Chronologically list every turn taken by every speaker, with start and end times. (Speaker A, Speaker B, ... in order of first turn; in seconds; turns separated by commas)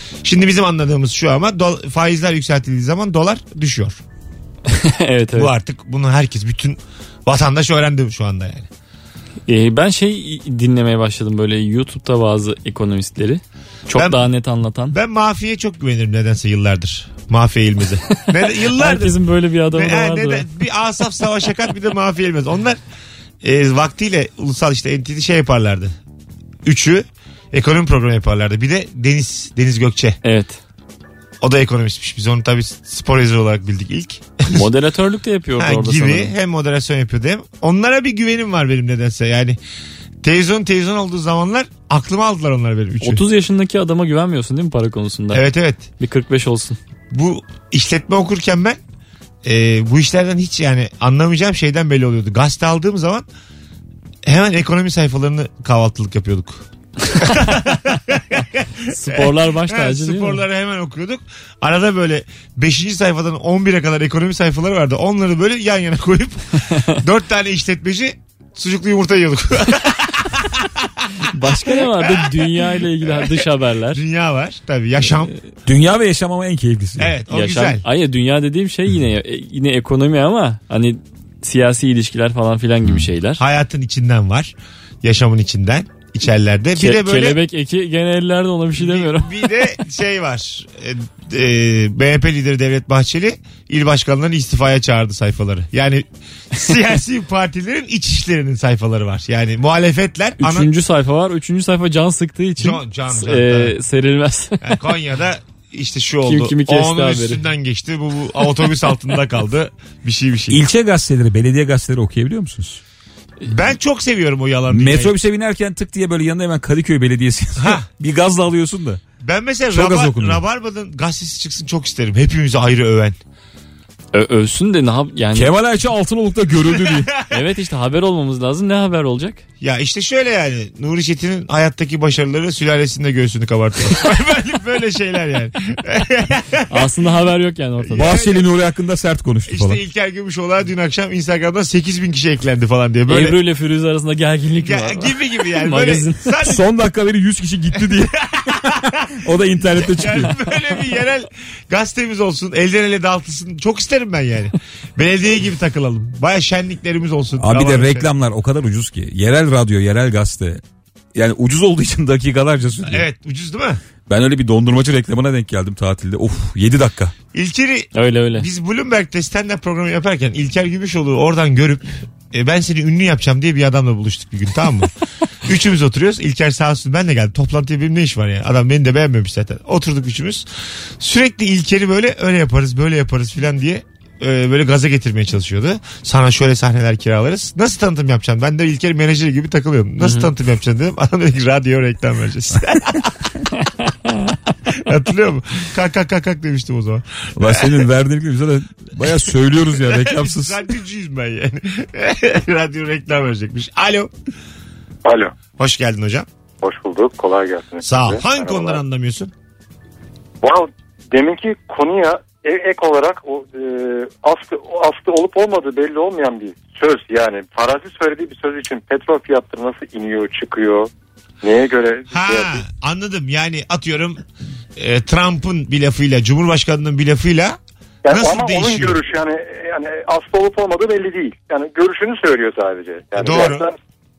Speaker A: 0.2-4.0, Speaker B: 4.7-5.5, Speaker A: 5.4-8.7, Speaker B: 9.5-14.9, Speaker A: 13.9-14.2, Speaker A: 14.9-19.2, Speaker B: 18.4-20.4, Speaker A: 19.7-22.8, Speaker A: 23.4-25.9, Speaker A: 26.6-30.2, Speaker B: 30.2-30.6, Speaker A: 31.4-34.6, Speaker B: 34.5-36.3, Speaker A: 35.6-39.6, Speaker A: 40.2-43.2, Speaker B: 43.0-45.5, Speaker A: 45.3-45.8, Speaker B: 46.0-46.8, Speaker A: 47.1-48.8, Speaker A: 49.4-53.2, Speaker A: 54.2-71.1, Speaker B: 58.9-60.4, Speaker B: 71.2-74.0, Speaker A: 71.9-73.4, Speaker A: 73.9-75.3, Speaker C: 75.7-77.2, Speaker A: 77.0-77.8, Speaker B: 77.3-83.4, Speaker A: 83.4-87.4, Speaker B: 86.8-89.4, Speaker A: 88.8-100.7, Speaker B: 100.4-104.6, Speaker A: 102.6-103.7, Speaker A: 104.6-110.6, Speaker B: 106.2-107.4, Speaker C: 110.5-112.8, Speaker A: 113.5-115.1, Speaker C: 114.7-119.0, Speaker A: 117.6-117.9, Speaker A: 119.2-123.2, Speaker C: 119.7-120.4, Speaker B: 124.1-125.5, Speaker C: 125.3-127.1, Speaker A: 126.8-127.2, Speaker B: 127.3-129.4, Speaker A: 129.6-136.7, Speaker B: 136.7-138.2, Speaker A: 137.9-138.4, Speaker C: 137.9-139.8, Speaker A: 139.5-143.4, Speaker B: 143.1-146.3, Speaker A: 144.6-146.6, Speaker C: 146.4-150.3, Speaker A: 148.2-149.1, Speaker A: 149.8-158.1, Speaker C: 157.4-160.6, Speaker C: 161.1-163.1, Speaker A: 162.9-163.8, Speaker C: 164.1-167.1, Speaker A: 167.3-174.9, Speaker B: 167.9-168.4, Speaker A: 175.4-180.4, Speaker A: 181.0-193.3, Speaker B: 194.1-194.3, Speaker A: 194.7-197.8, Speaker C: 197.4-200.6, Speaker A: 199.8-204.1, Speaker D: 205.1-205.4, Speaker A: 205.6-206.3, Speaker D: 206.6-208.8, Speaker A: 207.8-209.3, Speaker D: 210.4-220.9, Speaker D: 221.4-222.7, Speaker A: 222.1-224.2, Speaker A: 224.8-227.6, Speaker D: 228.1-233.7, Speaker A: 228.1-229.0, Speaker A: 233.2-233.7